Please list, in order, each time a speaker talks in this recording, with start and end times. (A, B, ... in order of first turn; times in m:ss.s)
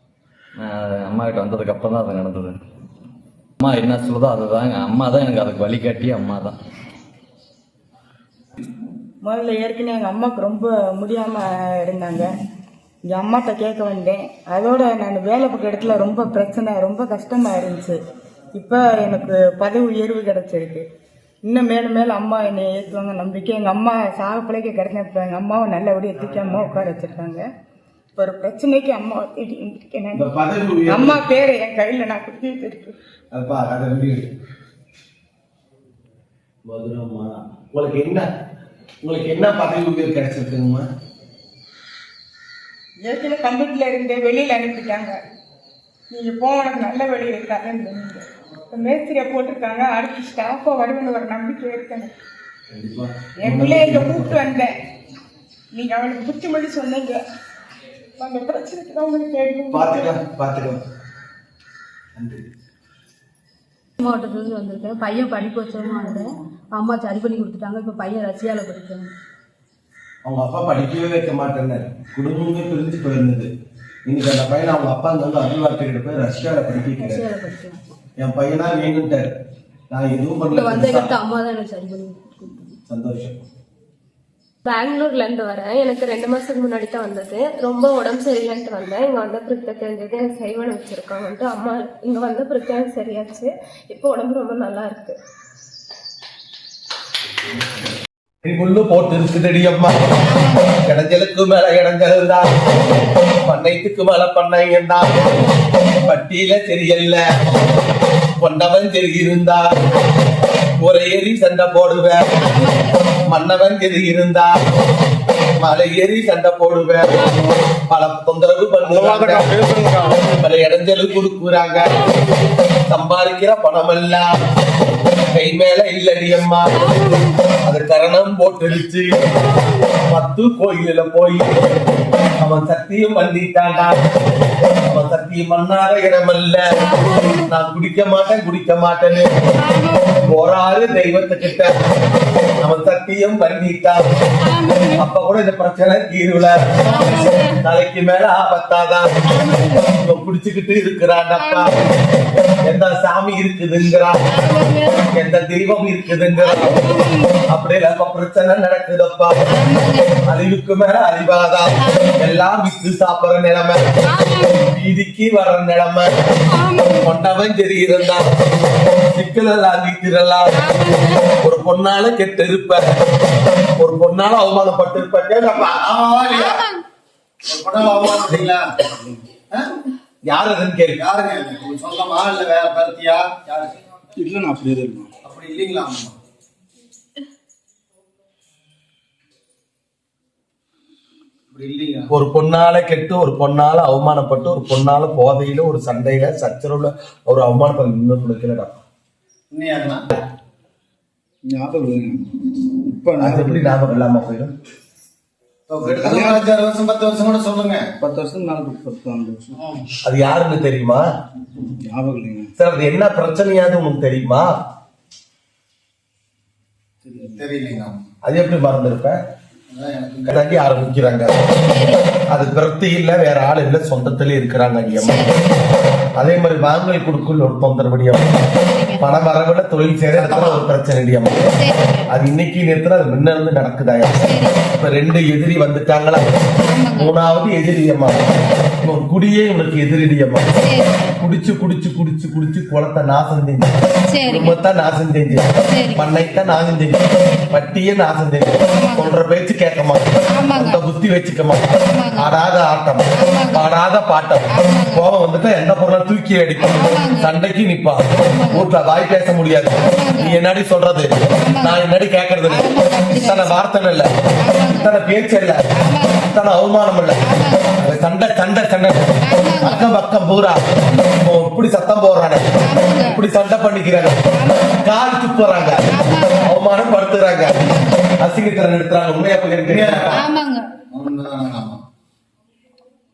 0:00.6-0:02.6 A
0:03.6-0:06.6 A
0:09.2-0:12.3 B
0:13.1-0:18.0 B
0:18.5-0:20.8 B
0:21.4-0:27.4 B
0:28.1-0:30.2 B
0:30.1-0:31.2 C
0:30.9-0:32.9 B
0:33.3-0:34.3 C
0:36.6-0:38.2 C
0:39.0-0:40.9 C
0:43.0-0:45.2 B
0:46.1-0:52.1 B
0:52.7-0:54.4 C
0:53.4-0:54.7 B
0:55.7-0:57.2 B
0:58.2-1:00.1 B
0:59.7-1:00.8 C
1:02.2-1:02.4 C
1:04.0-1:09.1 D
1:10.2-1:13.5 C
1:14.0-1:17.3 C
1:17.0-1:17.9 D
1:18.2-1:19.3 C
1:19.9-1:21.1 C
1:20.5-1:22.8 D
1:22.9-1:23.4 C
1:24.6-1:35.2 E
1:38.4-1:39.9 C
1:40.3-1:40.7 D
1:40.8-1:42.5 C
1:43.4-1:45.3 C
1:45.9-1:47.2 C
1:48.4-1:49.6 C
1:50.8-1:52.2 C
1:52.4-1:53.2 D
1:53.2-1:54.5 C
1:55.6-1:57.3 C
1:57.9-1:59.5 C
1:58.8-2:00.2 F
2:00.1-2:02.0 C
2:02.9-2:04.3 C
2:05.3-2:06.8 C
2:06.8-2:07.4 D
2:07.6-2:09.1 C
2:10.0-2:11.5 C
2:12.4-2:14.0 C
2:14.8-2:16.6 C
2:16.8-2:17.5 D
2:17.5-2:19.3 C
2:19.6-2:20.2 D
2:20.2-2:21.7 C
2:22.6-2:24.0 C
2:24.4-2:25.0 D
2:25.0-2:26.9 C
2:26.8-2:27.6 D
2:27.6-2:29.1 C
2:29.3-2:29.9 D
2:29.8-2:31.7 C
2:31.4-2:31.9 D
2:32.6-2:34.2 C
2:34.3-2:35.2 D
2:35.1-2:36.9 C
2:36.4-2:37.5 D
2:37.5-2:39.3 C
2:39.5-2:40.2 D
2:40.3-2:43.8 C
2:41.8-2:42.2 D
2:44.0-2:44.7 D
2:44.7-2:46.1 C
2:46.5-2:47.1 D
2:47.0-2:48.2 C
2:49.1-2:50.5 C
2:50.5-2:51.4 D
2:51.4-2:52.8 C
2:53.8-2:55.8 C
2:55.6-2:56.6 F
2:56.3-2:56.8 D
2:57.5-2:58.6 F
3:00.3-3:01.0 C
3:01.0-3:03.7 F
3:04.2-3:05.1 G
3:05.2-3:06.1 F
3:11.5-3:12.1 F
3:12.1-3:18.7 C
3:19.5-3:20.0 F
3:21.5-3:22.3 G
3:22.8-3:23.8 G
3:23.2-3:24.5 C
3:25.7-3:27.8 F
3:25.8-3:26.5 G
3:28.0-3:29.5 G
3:29.5-3:29.8 F
3:30.0-3:31.0 C
3:31.8-3:32.5 G
3:32.6-3:34.5 C
3:37.0-3:37.4 G
3:37.1-3:38.0 F
3:38.2-3:39.2 C
3:39.7-3:40.4 F
3:40.3-3:41.4 C
3:41.6-3:42.1 D
3:42.3-3:45.3 C
3:45.0-3:45.4 D
3:46.2-3:48.3 C
3:48.5-3:49.0 D
3:49.0-3:51.4 C
3:50.1-3:50.6 F
3:51.6-3:52.1 D
3:52.1-3:56.2 C
3:54.2-3:54.6 D
3:56.7-3:57.1 D
3:57.0-3:58.2 C
3:58.8-4:00.4 C
4:00.6-4:01.2 D
4:01.2-4:03.7 C
4:04.1-4:04.5 D
4:04.3-4:11.7 C
4:05.7-4:06.1 D
4:08.7-4:09.1 D
4:10.3-4:10.8 D
4:11.9-4:12.3 D
4:12.2-4:24.1 C
4:13.2-4:13.6 D
4:14.5-4:15.0 D
4:16.6-4:17.3 D
4:18.2-4:18.7 D
4:19.8-4:20.3 D
4:21.4-4:21.8 D
4:22.5-4:23.6 D
4:24.4-4:24.9 D
4:24.7-4:25.6 C
4:25.8-4:26.3 D
4:26.2-4:27.2 C
4:27.2-4:27.8 D
4:27.8-4:32.4 C
4:29.2-4:29.8 D
4:32.6-4:33.2 D
4:33.0-4:34.2 C
4:34.3-4:34.7 D
4:34.7-4:35.8 C
4:35.9-4:36.5 D
4:36.4-4:40.2 C
4:37.6-4:37.9 D
4:39.7-4:40.2 F
4:40.1-4:40.6 D
4:40.9-4:41.8 F